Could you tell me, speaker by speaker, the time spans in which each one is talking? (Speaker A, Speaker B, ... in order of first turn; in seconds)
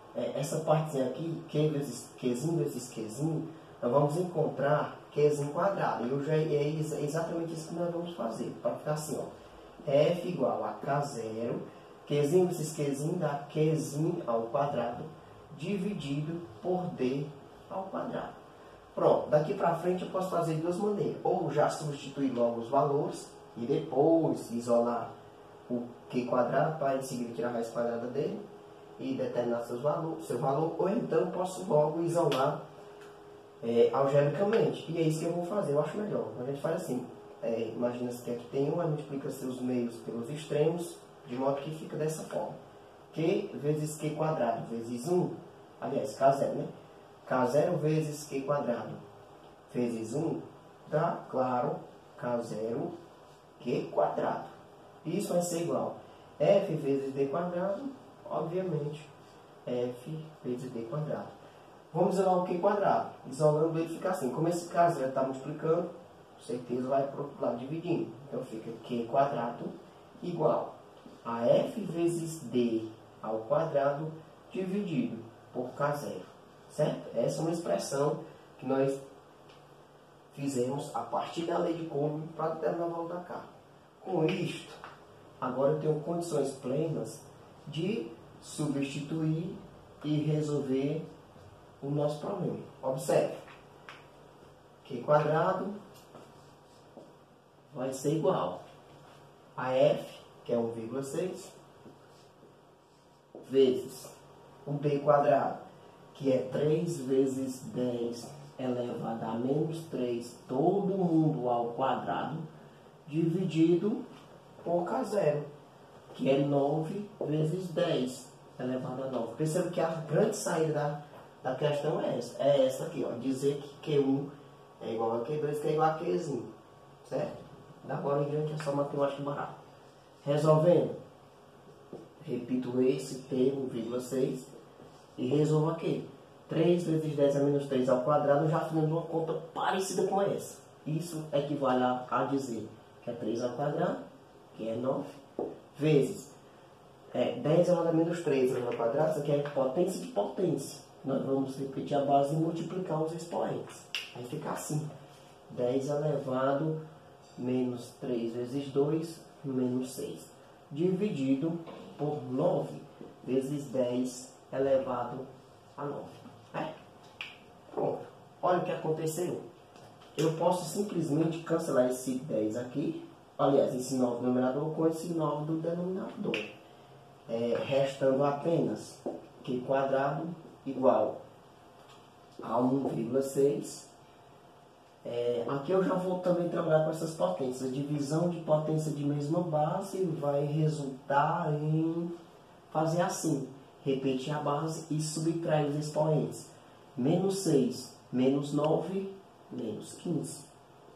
Speaker A: 0.1-18.3, 18.9-25.1, 25.7-28.4, 29.0-32.6, 33.6-42.6, 43.1-46.7, 47.2-49.0, 49.7-52.9, 53.6-59.1, 59.6-61.4, 61.9-79.0, 80.3-84.8, 85.4-91.1, 91.8-93.4, 94.8-95.8, 97.7-98.6, 99.6-101.5, 103.4-104.1, 104.7-105.6, 106.1-112.5, 113.1-114.0, 114.6-115.5, 116.1-126.5, 127.0-129.6, 130.2-131.0, 132.2-134.5, 135.2-144.0, 144.5-145.2, 145.7-146.3, 147.1-154.9, 155.5-156.8, 157.4-166.8, 167.7-169.4, 170.2-176.5, 177.3-181.2, 182.4-183.9, 185.0-192.1, 192.7-200.5